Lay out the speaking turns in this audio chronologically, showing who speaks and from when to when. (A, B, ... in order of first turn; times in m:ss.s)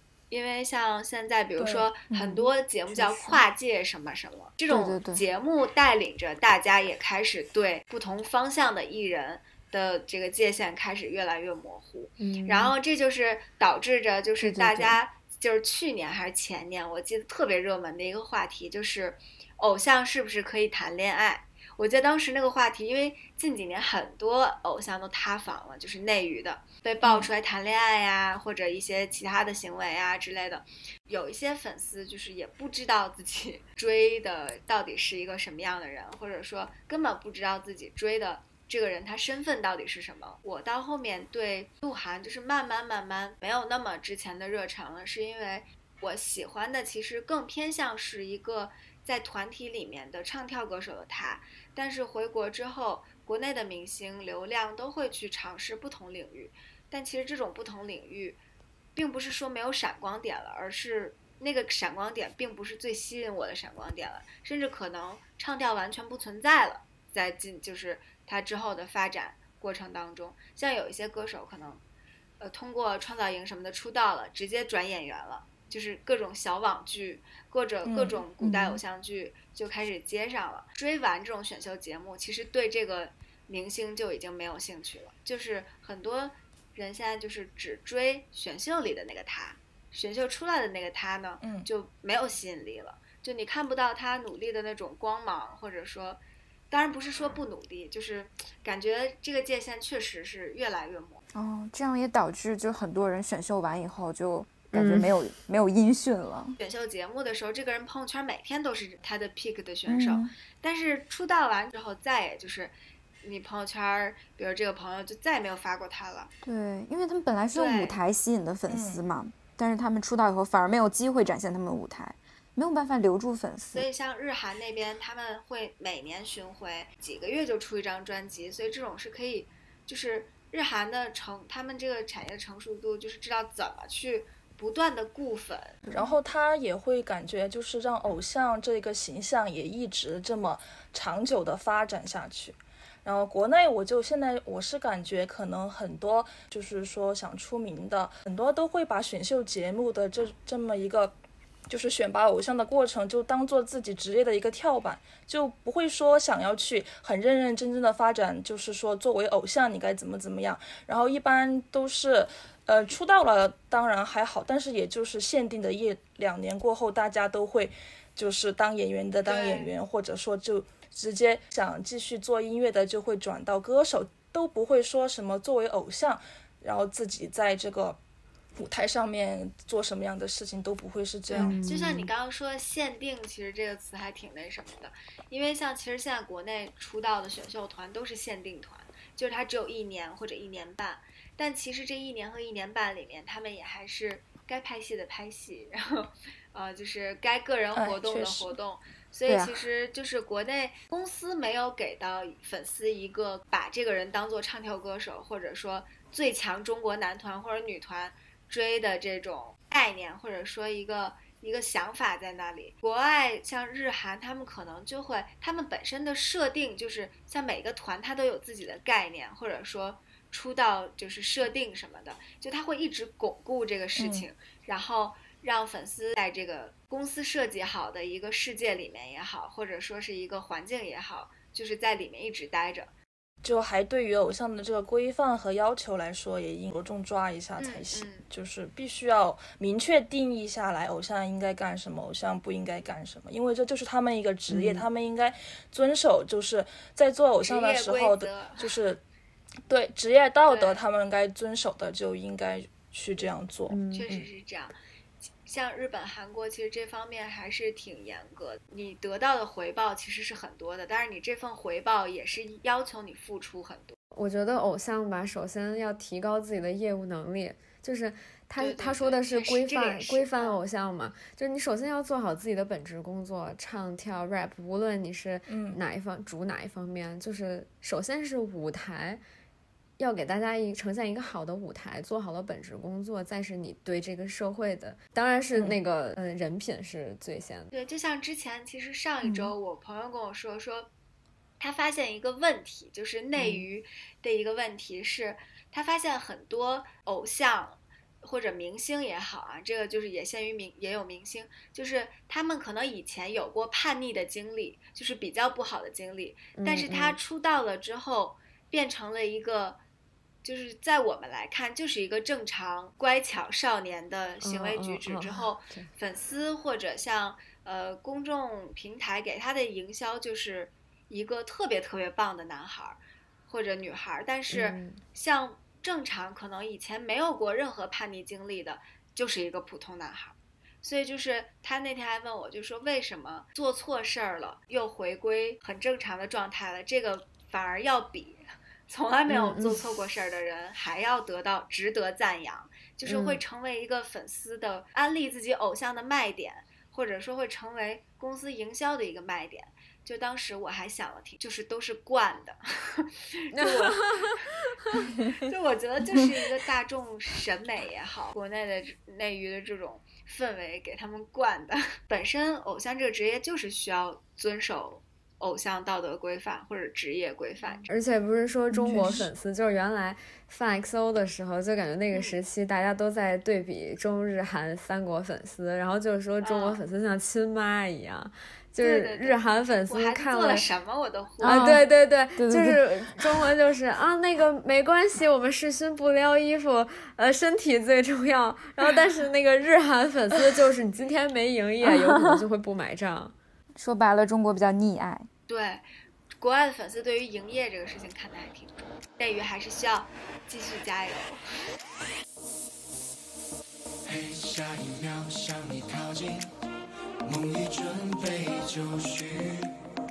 0:00.3-0:58.4 A
0:01.6-0:01.9 B
0:02.1-0:02.5 C
0:02.9-0:03.4 D
0:04.7-0:05.2 C
0:12.2-0:12.8 D
0:14.4-0:14.9 D
0:14.6-0:14.9 C
0:59.0-1:11.8 A
1:12.4-1:41.2 A
1:17.8-1:18.2 B
1:18.4-1:18.8 D
1:31.4-1:31.7 B
1:41.4-1:46.6 C
1:44.7-1:45.1 D
1:46.6-1:56.3 A
1:49.9-1:50.3 C
1:56.4-2:03.9 C
1:57.5-1:58.0 A
1:58.7-1:59.0 B
2:03.7-2:15.8 A
2:15.9-2:31.1 B
2:31.7-2:58.0 B
2:49.2-2:49.7 A
2:58.6-3:01.6 B
3:01.3-3:52.9 A
3:01.3-3:02.1 D
3:17.8-3:18.5 B
3:19.3-3:19.5 C
3:44.0-3:44.3 B
3:53.4-4:09.0 B
3:57.6-3:58.3 A
4:04.5-4:04.9 D
4:07.4-4:08.8 A
4:09.7-4:14.3 B
4:10.5-4:10.8 A
4:13.7-4:14.1 D
4:13.9-4:14.8 A
4:15.4-4:24.0 A
4:24.1-4:39.2 D
4:28.6-4:30.6 A
4:35.5-4:35.8 B
4:40.0-4:47.7 D
4:47.7-4:50.9 A
4:51.6-5:09.8 A
4:53.4-4:53.7 D
5:06.6-5:07.2 D
5:10.4-6:07.9 A
5:14.4-5:15.9 D
5:24.5-5:25.0 D
5:39.3-5:39.8 D
5:43.0-5:43.4 D
5:53.5-5:54.3 D
6:07.9-6:20.7 D
6:08.8-6:09.3 B
6:08.8-6:09.2 C
6:12.1-6:12.4 A
6:16.4-6:16.8 A
6:18.8-6:21.8 A
6:21.4-6:33.4 D
6:21.4-6:21.8 C
6:22.4-6:22.8 C
6:31.8-6:32.4 C
6:33.8-6:35.3 C
6:35.5-6:35.9 A
6:36.4-6:41.4 A
6:44.1-6:46.5 E
6:47.2-6:49.7 E